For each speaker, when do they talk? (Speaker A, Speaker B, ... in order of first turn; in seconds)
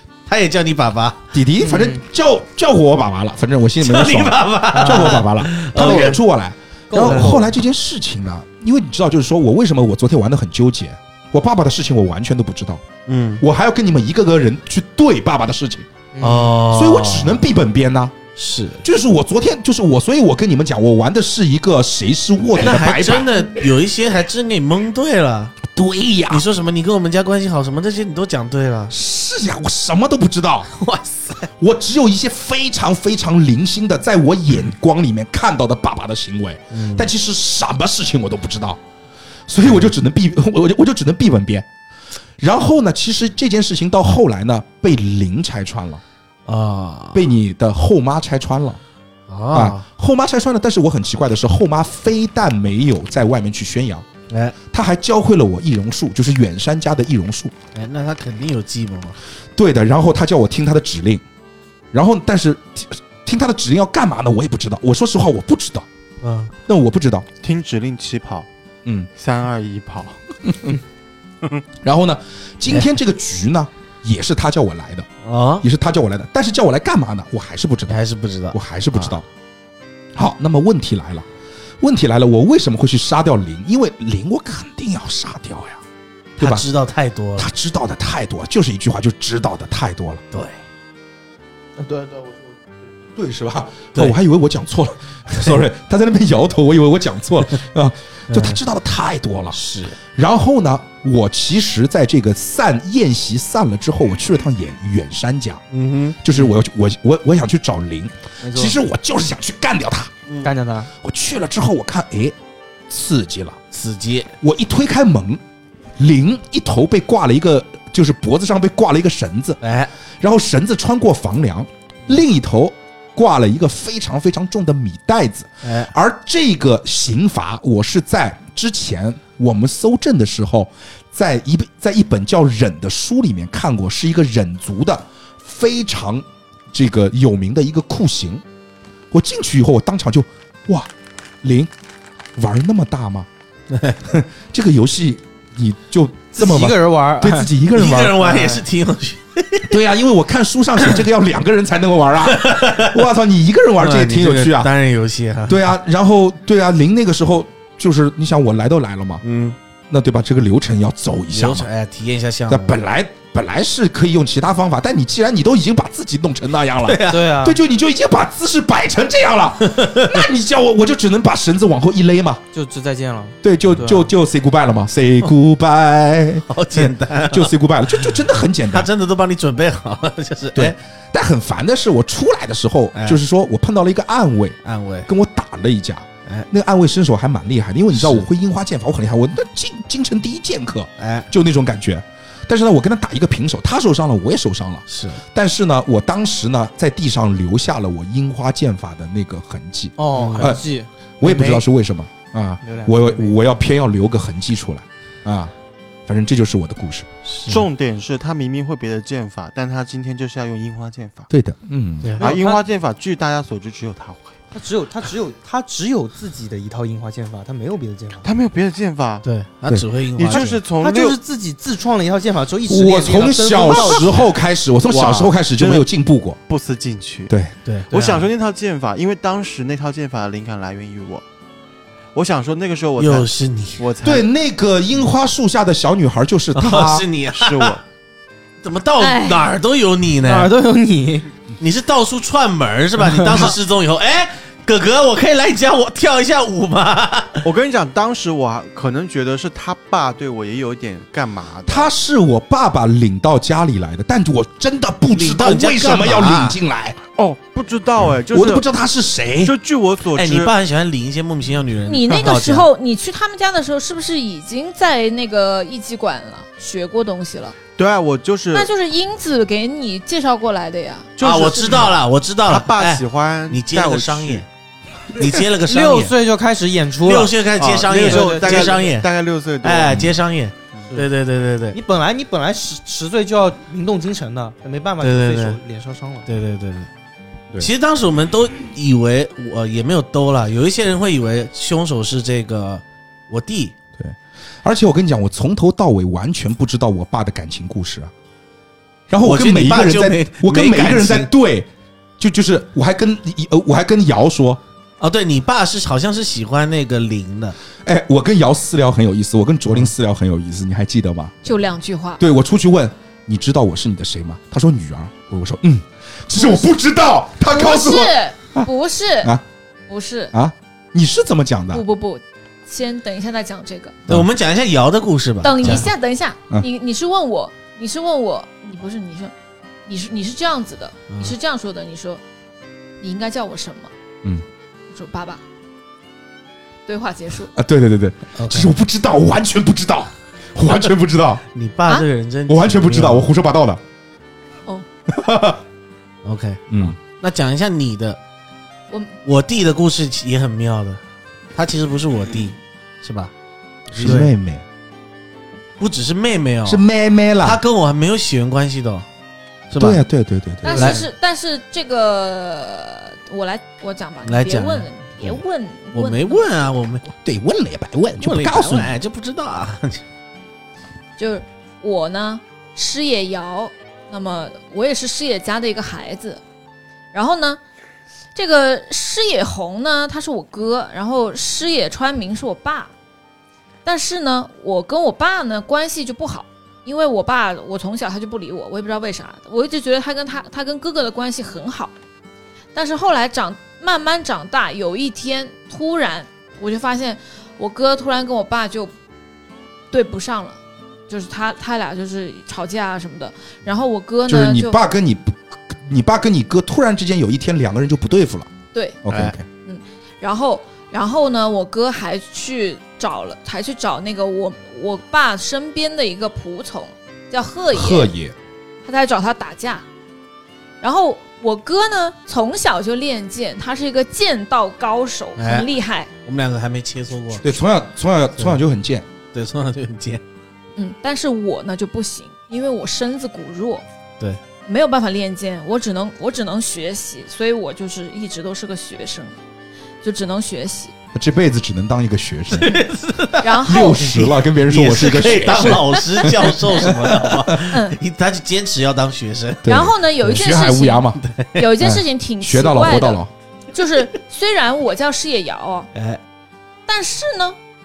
Speaker A: 0.2-1.2, 3.8-6.2, 7.0-7.3, 13.1-13.4, 16.2-17.4, 18.4-18.8, 22.6-25.6, 26.3-28.9, 30.7-31.5, 36.7-37.1, 46.5-47.2, 49.3-49.9, 54.3-54.5, 57.7-59.2, 66.2-66.5, 75.2-75.7, 77.9-78.6, 86.4-87.5, 90.3-90.6, 98.3-98.6, 99.5-100.0, 105.7-106.5, 110.3-110.5, 113.7-114.3, 119.6-119.9, 125.6-125.9, 143.7-144.0, 147.7-149.7, 152.3-153.0, 153.8-155.7, 159.2-159.6, 161.3-162.8, 166.8-167.3, 169.7-170.2, 176.5-180.8, 182.9-183.2, 184.6-185.1, 187.9-188.2, 191.0-191.3, 194.9-195.2, 200.1-200.5, 207.2-207.7, 212.0-212.3, 219.2-220.6, 227.6-228.2, 233.0-233.8, 236.5-237.8, 238.6-240.5, 241.6-247.5, 255.1-256.6, 260.1-262.7, 271.2-274.4, 275.1-276.1, 277.0-279.1, 279.6-281.8, 285.0-285.6, 286.2-286.9, 287.6-293.8, 299.2-301.3, 305.0-307.6, 324.1-325.9, 331.1-331.3, 338.3-338.7, 341.5-343.3, 346.2-348.2, 349.2-351.0, 351.5-353.3, 353.9-354.3, 355.8-356.8, 357.4-359.1, 359.7-360.0, 360.7-361.0, 364.2-365.4, 365.9-367.1, 368.2-370.0, 409.1-409.3, 425.4-425.7, 426.2-427.4, 429.3-430.2, 442.5-443.5, 444.6-449.7, 451.2-451.6, 455.9-456.2
Speaker B: 1.3-12.8, 13.4-15.8, 16.7-18.1, 18.8-23.5, 25.7-26.4, 28.9-30.7, 31.6-38.8, 39.5-41.7, 42.4-46.0, 47.1-48.8, 49.5-54.0, 54.7-57.5, 59.5-61.2, 61.9-65.8, 66.7-67.3, 70.5-70.8, 71.8-75.1, 75.6-78.0, 78.5-79.2, 80.1-81.3, 81.8-85.8, 86.4-86.7, 87.4-90.2, 93.1-105.6, 106.2-110.1, 111.0-112.3, 112.9-113.6, 114.4-115.4, 116.0-119.6, 120.2-138.4, 139.1-140.9, 141.4-141.7, 142.4-143.3, 144.0-148.3, 149.7-154.7, 155.5-159.2, 159.9-161.7, 162.5-172.4, 173.4-178.9, 180.5-200.7, 201.2-205.5, 206.1-207.1, 211.3-212.1, 222.6-226.4, 227.3-227.5, 234.0-237.1, 251.7-257.0, 258.3-259.5, 294.0-298.1, 299.1-304.6, 307.8-311.5, 312.2-318.7, 320.3-321.8, 337.5-341.4, 342.5-343.8, 345.1-345.6, 346.7-346.9, 353.9-354.6, 356.6-357.6, 359.8-361.0, 367.1-368.9, 404.3-408.5, 409.0-409.4, 417.7-418.3, 427.4-429.1, 441.1-442.8, 443.6-447.5, 449.6-451.2, 451.8-453.3
Speaker C: 1.6-2.0, 4.7-5.2, 5.8-6.1, 6.9-7.5, 16.1-16.6, 91.8-92.5, 108.4-108.8, 110.4-110.9, 146.4-147.5, 148.2-148.6, 167.1-167.6, 172.5-174.1, 200.0-201.6, 202.6-203.4, 212.2-212.6, 214.5-218.2, 220.3-224.3, 240.2-241.3, 243.1-243.5, 275.2-278.8, 281.7-286.3
Speaker D: 67.4-68.5, 69.2-70.2, 207.4-211.3, 212.2-214.3, 218.2-219.2, 220.1-221.2, 224.9-225.9, 226.5-227.3, 227.9-231.2, 232.1-234.3, 237.3-237.8, 247.4-251.9, 257.1-258.6, 259.4-260.5, 267.8-268.7, 271.2-274.4, 277.5-280.0
Speaker E: 239.0-239.5, 261.9-267.6, 268.5-271.1, 311.4-312.2, 316.4-316.6, 317.5-319.3, 319.9-320.3, 321.7-324.0, 325.4-329.3, 329.9-332.2, 333.0-333.9, 334.9-335.4, 336.9-337.5, 348.9-349.1, 360.6-366.4, 371.2-376.4, 377.1-377.6, 378.3-382.9, 383.8-391.9, 392.7-398.9, 399.9-400.6, 401.1-404.8, 408.7-409.0, 409.5-418.1, 418.8-419.8, 420.8-426.1, 430.8-433.8, 434.6-439.4, 440.0-440.9, 443.4-444.4, 445.6-446.9, 447.7-448.0, 449.6-453.2, 453.7-455.9, 456.9-457.6